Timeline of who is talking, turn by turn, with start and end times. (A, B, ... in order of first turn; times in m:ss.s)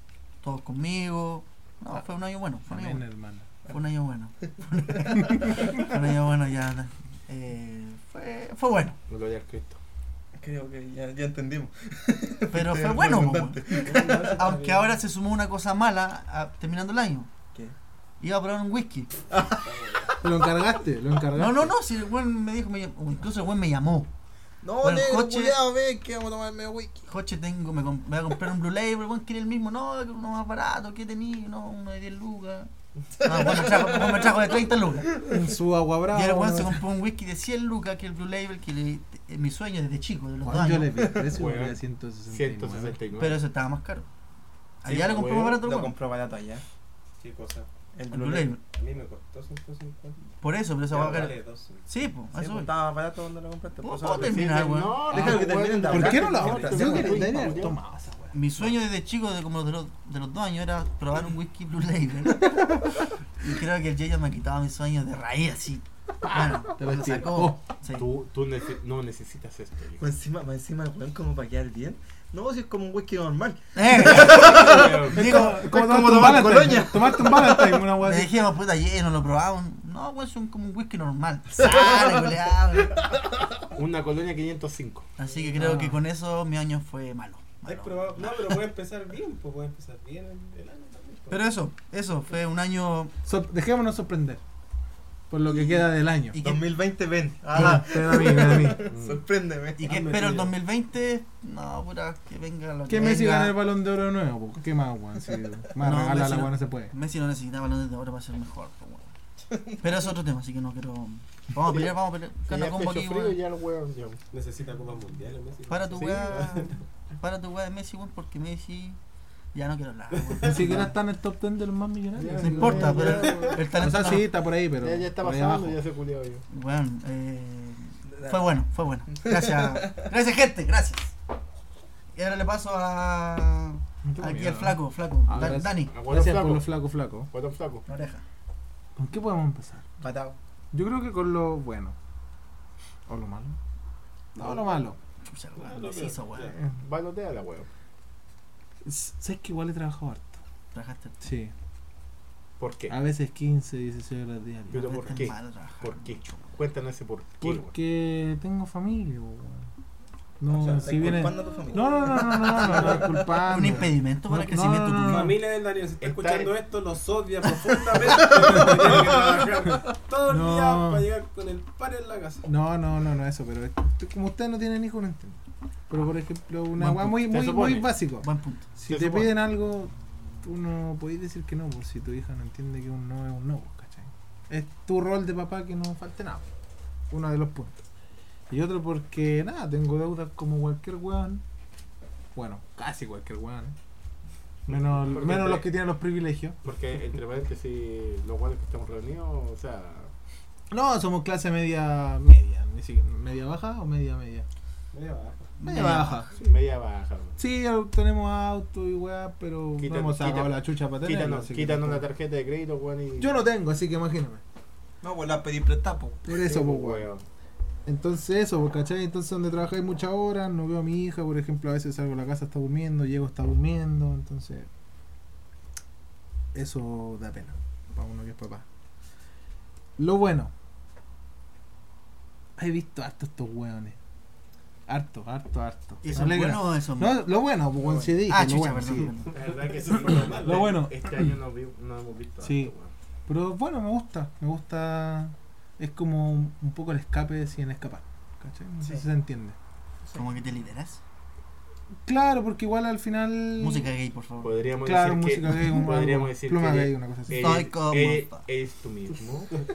0:00.4-0:03.0 A
0:02.7-0:03.5 B
0:03.7-0:09.0 A
0:04.9-0:05.8 C
0:05.2-0:05.7 B
0:09.1-0:09.8 D
0:10.4-0:14.5 C
0:12.5-0:17.3 A
0:13.7-0:15.0 E
0:18.2-0:19.2 A
0:19.3-0:20.2 C
0:20.2-0:21.7 B
0:21.3-0:24.1 A
0:24.6-0:27.1 C
0:24.8-0:25.6 A
0:27.1-0:32.7 A
0:33.2-0:35.5 C
0:33.2-0:35.2 A
0:35.2-0:36.8 B
0:36.1-0:41.2 A
0:40.4-0:43.0 B
0:41.3-0:41.8 D
0:42.3-0:43.4 D
0:43.2-0:44.1 A
0:44.8-0:45.9 A
0:44.9-0:45.6 D
0:45.5-0:46.6 C
0:47.2-0:47.7 E
0:47.9-0:48.6 C
0:48.1-0:48.6 A
0:48.7-0:50.2 E
0:50.4-0:52.8 A
0:50.9-0:51.9 E
0:52.3-0:54.5 C
0:53.8-0:55.2 A
0:54.0-0:57.8 D
0:55.1-0:57.5 C
0:55.2-0:58.6 B
0:58.3-1:08.1 A
1:06.2-1:07.6 B
1:07.9-1:10.0 D
1:10.0-1:17.9 C
1:13.8-1:15.6 A
1:14.2-1:15.4 D
1:15.1-1:18.4 B
1:18.0-1:23.0 A
1:21.6-1:22.2 C
1:23.8-1:25.1 D
1:25.2-1:28.5 A
1:25.2-1:25.5 E
1:25.5-1:26.0 B
1:27.6-1:31.5 E
1:31.3-1:33.1 A
1:33.3-1:34.4 B
1:35.3-1:36.4 B
1:35.5-1:36.7 A
1:36.4-1:39.9 C
1:37.5-1:38.9 B
1:38.9-1:39.2 D
1:39.8-1:43.6 A
1:39.8-1:40.5 E
1:42.9-1:46.9 B
1:45.8-1:49.1 A
1:49.5-1:49.9 C
1:49.8-1:53.4 A
1:51.7-1:54.2 D
1:54.3-1:56.8 E
1:55.7-1:59.0 A
1:59.5-2:00.9 A
2:00.1-2:00.7 E
2:00.4-2:05.8 B
2:02.2-2:03.6 D
2:02.6-2:04.3 A
2:03.0-2:03.6 E
2:04.8-2:06.4 D
2:06.5-2:11.1 A
2:08.1-2:08.4 C
2:09.1-2:10.0 C
2:12.2-2:15.9 A
2:14.0-2:17.3 B
2:15.9-2:16.8 D
2:17.3-2:17.8 D
2:17.9-2:18.2 A
2:19.0-2:19.8 B
2:20.0-2:20.4 C
2:20.7-2:22.0 B
2:23.1-2:23.6 B
2:24.4-2:25.0 B
2:25.2-2:26.5 A
2:25.6-2:26.6 E
2:26.8-2:27.7 D
2:28.8-2:30.4 B
2:30.7-2:31.2 A
2:31.2-2:31.5 B
2:32.6-2:33.0 D
2:32.9-2:35.3 B
2:34.7-2:37.7 D
2:34.8-2:36.4 A
2:37.4-2:39.7 B
2:40.4-2:45.4 B
2:40.5-2:43.7 C
2:42.6-2:42.9 E
2:43.5-2:45.4 A
2:45.0-2:52.5 E
2:46.0-2:46.6 D
2:48.2-2:49.1 B
2:50.3-2:51.1 B
2:52.4-3:06.5 B
2:56.8-2:57.4 A
2:57.2-2:57.9 D
2:58.2-2:58.7 A
2:58.9-2:59.4 D
3:07.1-3:07.8 B
3:08.5-3:11.4 B
3:12.4-3:13.8 B
3:14.7-3:16.6 B
3:14.7-3:15.7 D
3:16.6-3:20.1 D
3:20.7-3:24.5 B
3:24.9-3:25.6 E
3:25.6-3:26.4 B
3:25.6-3:26.2 A
3:26.4-3:27.4 D
3:27.4-3:32.1 B
3:29.8-3:33.4 D
3:33.2-3:34.4 B
3:35.0-3:36.5 C
3:36.2-3:37.1 B
3:36.4-3:37.2 D
3:37.9-3:44.7 B
3:46.5-3:48.6 B
3:50.0-3:50.5 B
3:52.6-3:54.0 B
3:54.9-3:59.1 B
3:56.0-3:57.3 A
3:57.8-3:58.2 C
3:58.3-3:59.3 A
3:59.3-4:00.8 E
3:59.3-4:02.9 D
4:00.4-4:01.2 B
4:02.4-4:02.7 B
4:03.3-4:09.6 B
4:10.1-4:11.0 A
4:12.0-4:13.9 B
4:13.6-4:14.6 A
4:14.4-4:19.5 D
4:14.8-4:17.7 B
4:17.4-4:18.4 A